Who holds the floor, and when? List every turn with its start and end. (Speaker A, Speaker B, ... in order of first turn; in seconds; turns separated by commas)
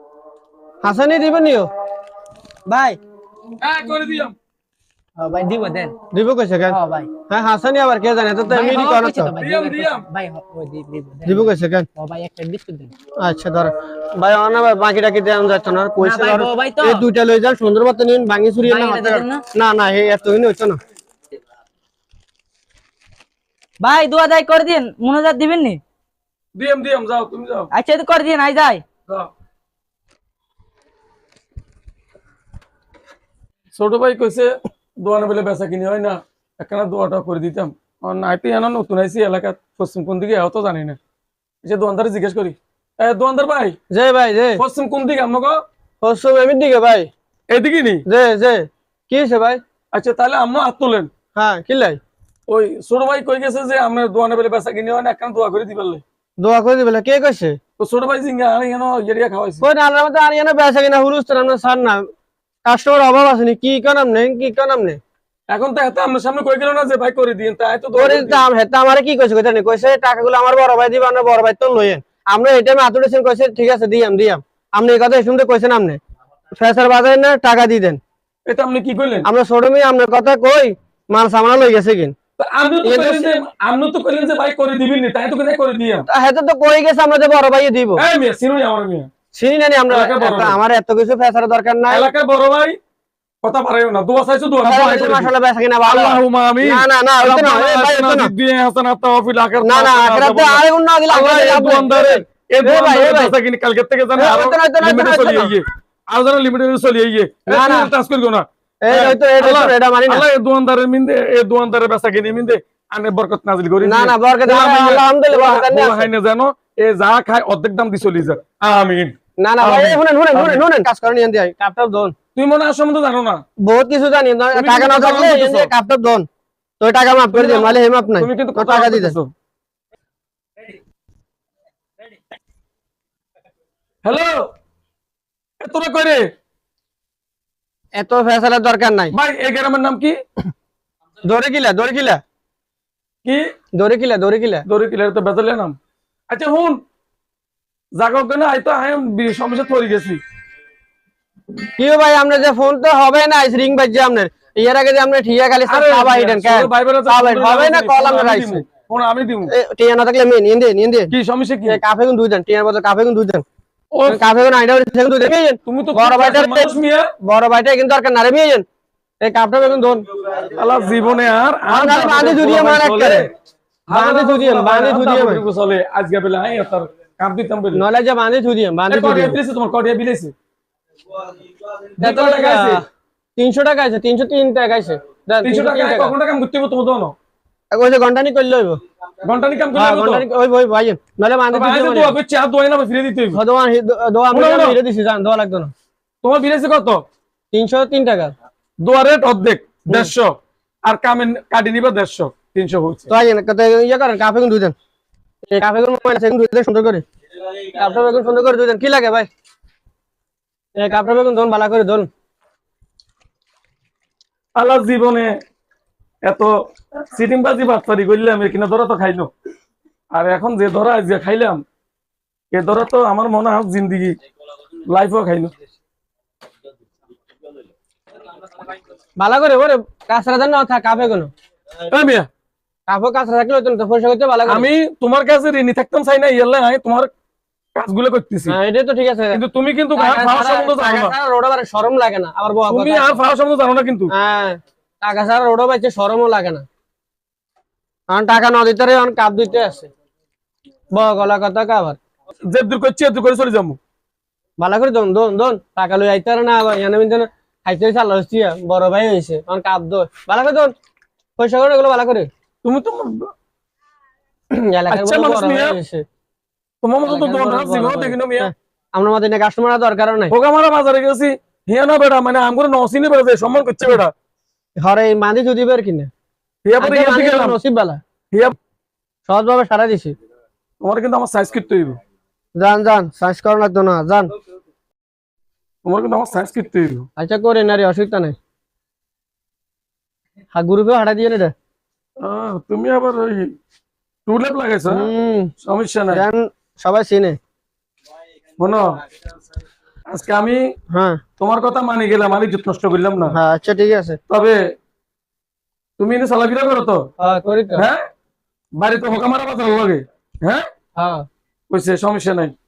Speaker A: 0.8-1.7, Speaker B: 2.7-3.0, Speaker C: 3.6-4.3, Speaker B: 5.2-5.9, Speaker A: 6.1-6.8, Speaker B: 6.7-7.1, Speaker A: 7.3-9.3, Speaker B: 8.5-12.9, Speaker C: 9.4-10.1, Speaker A: 11.2-11.9, Speaker A: 13.2-20.8, Speaker B: 16.0-17.1, Speaker B: 18.6-19.4, Speaker B: 23.8-25.8, Speaker C: 26.6-27.7, Speaker B: 27.7-28.8, Speaker C: 33.7-41.0, Speaker C: 41.6-43.8, Speaker A: 43.9-44.6, Speaker C: 44.6-45.6, Speaker A: 46.0-47.1, Speaker C: 47.5-48.0, Speaker A: 48.0-49.6, Speaker C: 49.9-51.1, Speaker A: 51.3-52.0, Speaker C: 52.5-56.0, Speaker A: 56.4-57.6, Speaker C: 57.8-59.6, Speaker A: 59.6-62.0, Speaker A: 62.6-65.0, Speaker C: 65.5-68.4, Speaker A: 67.9-76.0, Speaker A: 76.5-78.0, Speaker C: 78.5-79.3, Speaker A: 79.2-82.1, Speaker C: 82.4-86.0, Speaker A: 82.8-83.3, Speaker A: 86.1-88.0, Speaker C: 88.0-89.1, Speaker A: 89.3-92.1, Speaker C: 89.9-90.6, Speaker C: 91.9-92.8, Speaker C: 93.4-95.3, Speaker A: 94.6-98.3, Speaker C: 95.8-120.7, Speaker A: 99.6-103.3, Speaker A: 104.1-105.6, Speaker A: 107.5-107.9, Speaker A: 108.8-110.2, Speaker A: 113.8-116.1, Speaker A: 119.4-122.1, Speaker C: 122.3-123.4, Speaker A: 123.6-126.3, Speaker C: 124.5-125.7, Speaker A: 126.8-129.2, Speaker C: 127.3-129.3, Speaker C: 134.1-134.5, Speaker C: 135.6-136.3, Speaker A: 137.9-139.1, Speaker C: 139.1-140.2, Speaker A: 141.2-142.2, Speaker C: 143.2-143.5, Speaker A: 143.8-144.7, Speaker C: 144.7-145.8, Speaker C: 146.3-146.8, Speaker C: 147.9-150.2, Speaker A: 151.8-158.7, Speaker C: 155.7-159.5, Speaker A: 159.5-161.1, Speaker C: 161.1-161.8, Speaker A: 161.7-163.4, Speaker C: 163.9-164.4, Speaker A: 164.1-168.7, Speaker C: 165.7-167.1, Speaker A: 169.2-170.1, Speaker C: 170.5-173.3, Speaker A: 171.7-173.3, Speaker C: 173.9-177.8, Speaker A: 173.9-175.4, Speaker A: 177.7-179.4, Speaker C: 178.9-180.3, Speaker C: 182.0-182.8, Speaker A: 182.0-182.8, Speaker A: 183.4-186.1, Speaker C: 185.4-187.2, Speaker A: 187.7-188.8, Speaker C: 189.2-190.2, Speaker A: 189.7-192.2, Speaker C: 191.5-193.4, Speaker A: 193.3-195.7, Speaker C: 194.3-194.8, Speaker C: 196.2-197.0, Speaker A: 197.5-198.3, Speaker C: 198.8-203.1, Speaker A: 203.1-204.8, Speaker A: 205.5-207.1, Speaker A: 207.7-209.3, Speaker A: 210.8-212.1, Speaker C: 214.6-215.4, Speaker C: 216.2-216.5, Speaker C: 217.1-219.3, Speaker C: 220.1-221.6, Speaker C: 222.5-224.2, Speaker C: 224.9-225.5, Speaker A: 229.2-231.3, Speaker C: 231.9-232.3, Speaker A: 232.9-234.7, Speaker C: 234.5-237.1, Speaker C: 237.8-238.6, Speaker A: 238.5-239.4, Speaker C: 239.3-241.2, Speaker A: 240.0-243.2, Speaker C: 242.7-244.1, Speaker A: 244.1-246.7, Speaker A: 248.1-249.9, Speaker A: 250.9-252.0, Speaker C: 252.4-253.8, Speaker A: 254.6-260.7, Speaker A: 261.4-262.3, Speaker C: 262.6-263.3, Speaker A: 264.5-266.1, Speaker C: 264.9-265.8, Speaker C: 266.8-268.5, Speaker A: 267.1-270.3, Speaker C: 270.3-274.1, Speaker A: 274.8-276.1, Speaker C: 276.6-277.6, Speaker A: 276.8-278.0, Speaker A: 279.3-280.2, Speaker C: 280.8-282.0, Speaker A: 282.6-284.3, Speaker C: 285.9-287.1, Speaker A: 287.2-288.4, Speaker A: 290.5-291.5, Speaker C: 292.2-293.5, Speaker C: 294.2-295.1, Speaker A: 294.9-295.5, Speaker C: 295.6-296.2, Speaker A: 296.1-297.4, Speaker C: 298.6-299.0, Speaker C: 300.1-300.7, Speaker A: 300.9-301.2, Speaker C: 301.4-303.4, Speaker A: 303.3-304.2, Speaker C: 304.3-304.6, Speaker C: 306.0-307.1, Speaker A: 307.2-307.9, Speaker C: 307.8-308.0, Speaker C: 308.8-310.7, Speaker A: 311.0-311.2, Speaker C: 311.7-312.5